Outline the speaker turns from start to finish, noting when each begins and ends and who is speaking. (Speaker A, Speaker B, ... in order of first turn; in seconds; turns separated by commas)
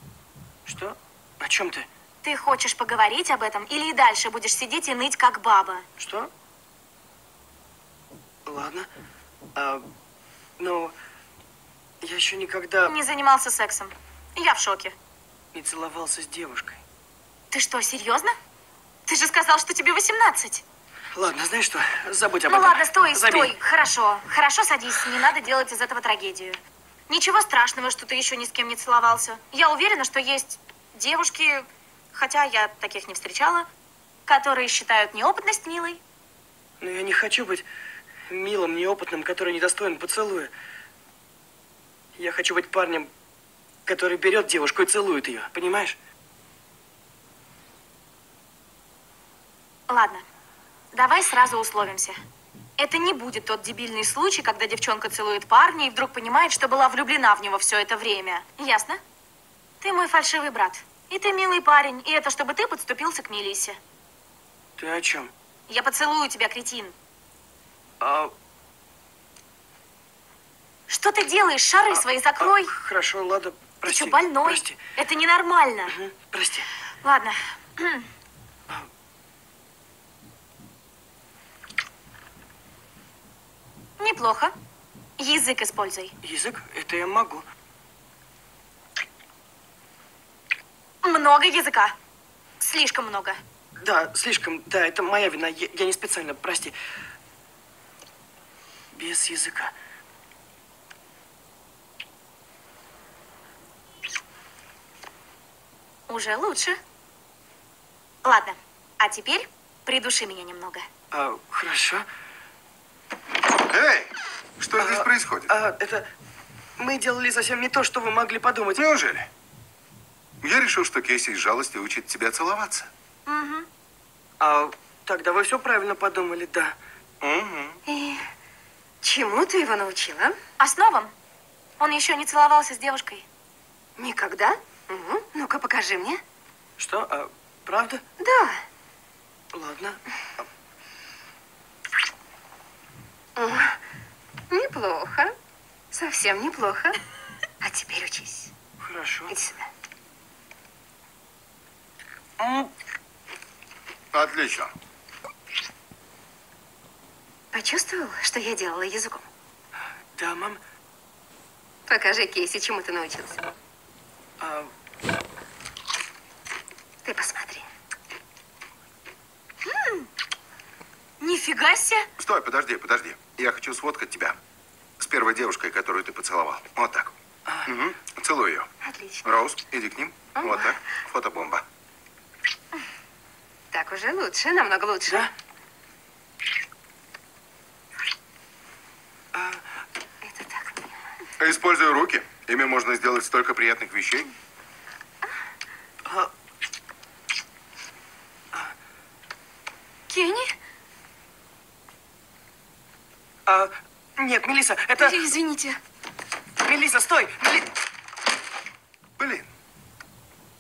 Speaker A: 0.6-1.9, Speaker B: 2.2-5.8, Speaker A: 6.0-6.3, Speaker A: 8.4-8.9, Speaker A: 9.6-9.8, Speaker A: 10.6-10.9, Speaker A: 12.0-12.9, Speaker B: 12.8-14.9, Speaker A: 15.5-16.8, Speaker B: 17.5-18.3, Speaker B: 19.1-20.6, Speaker A: 21.1-23.5, Speaker B: 22.5-26.6, Speaker B: 27.1-33.7, Speaker B: 34.2-36.0, Speaker A: 36.8-37.6, Speaker A: 38.3-40.5, Speaker A: 42.2-43.1, Speaker A: 43.9-46.0, Speaker B: 49.9-50.2, Speaker B: 50.9-52.2, Speaker B: 52.8-59.0, Speaker B: 59.8-63.8, Speaker A: 64.8-65.3, Speaker B: 65.7-66.9, Speaker A: 68.0-68.3, Speaker B: 70.9-72.7, Speaker A: 71.9-74.8, Speaker B: 73.8-75.9, Speaker A: 75.9-76.7, Speaker B: 77.0-78.1, Speaker B: 84.0-84.5, Speaker B: 85.2-86.1, Speaker A: 86.2-87.5, Speaker B: 91.0-91.9, Speaker B: 92.6-93.4, Speaker A: 93.8-96.7, Speaker A: 98.9-99.7, Speaker B: 106.1-106.8, Speaker B: 108.2-110.8, Speaker A: 111.1-112.0, Speaker C: 113.7-115.5, Speaker A: 114.8-116.0, Speaker A: 116.8-118.8, Speaker C: 118.8-119.3, Speaker C: 120.4-122.9, Speaker B: 123.2-123.7, Speaker A: 124.4-126.8, Speaker C: 127.2-127.8, Speaker D: 127.9-128.2, Speaker D: 129.0-130.3, Speaker B: 130.6-131.1, Speaker B: 131.8-133.2, Speaker D: 134.0-136.2, Speaker A: 136.8-138.0, Speaker D: 138.2-138.6, Speaker A: 139.5-140.4, Speaker D: 143.3-143.8, Speaker D: 144.5-145.3, Speaker D: 145.9-147.0, Speaker D: 147.6-148.5, Speaker A: 148.8-149.3, Speaker D: 149.3-149.7, Speaker A: 152.4-152.7, Speaker C: 154.1-154.7, Speaker D: 157.5-159.3, Speaker A: 160.1-160.6, Speaker D: 161.9-163.4, Speaker A: 164.4-164.7, Speaker D: 167.0-167.7, Speaker B: 169.6-170.1, Speaker B: 171.2-172.1, Speaker C: 172.2-174.4, Speaker C: 175.0-177.1, Speaker C: 177.6-178.7, Speaker D: 178.8-179.2, Speaker C: 179.2-181.6, Speaker D: 180.3-180.7, Speaker D: 183.7-185.3, Speaker A: 189.3-189.6, Speaker D: 190.2-191.0, Speaker C: 191.4-194.3, Speaker A: 196.1-196.3, Speaker B: 200.1-200.5, Speaker A: 203.4-205.3, Speaker B: 205.0-205.8, Speaker A: 206.6-207.7, Speaker C: 209.2-209.5